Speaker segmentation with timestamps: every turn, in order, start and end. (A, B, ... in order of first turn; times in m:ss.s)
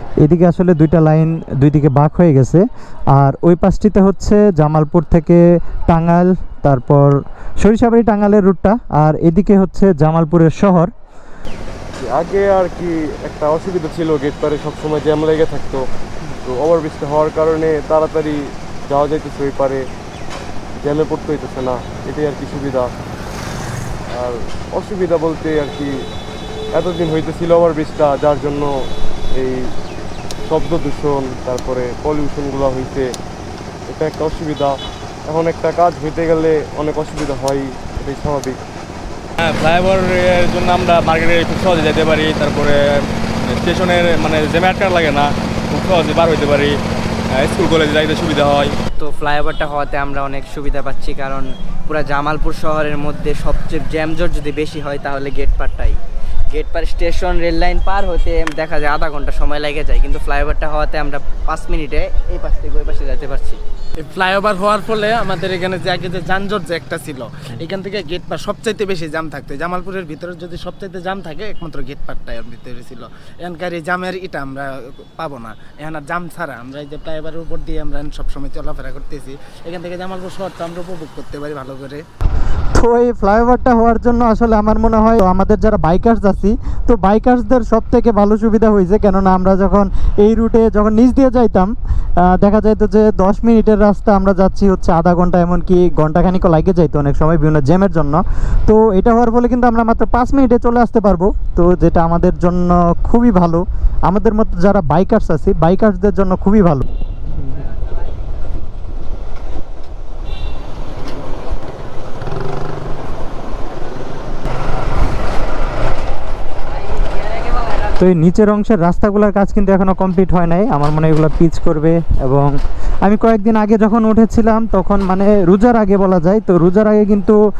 0:00.2-0:10.9 A
0:12.0-0:15.9 B
0:16.4-0:19.8 B
0:20.8-0:22.9 B
0:24.1-0:26.1 B
0:26.7-0:28.7 B
0:29.3-0:29.7 B
0:30.5-0:33.1 B
0:33.9-0:38.6 B
0:39.4-0:42.8 C
0:43.4-0:46.7 C
0:47.4-0:48.7 C
0:49.0-0:56.0 D
0:56.5-1:03.6 D
1:04.0-1:22.0 E
1:22.8-1:46.8 A
1:58.0-2:02.5 A
2:03.0-2:07.4 A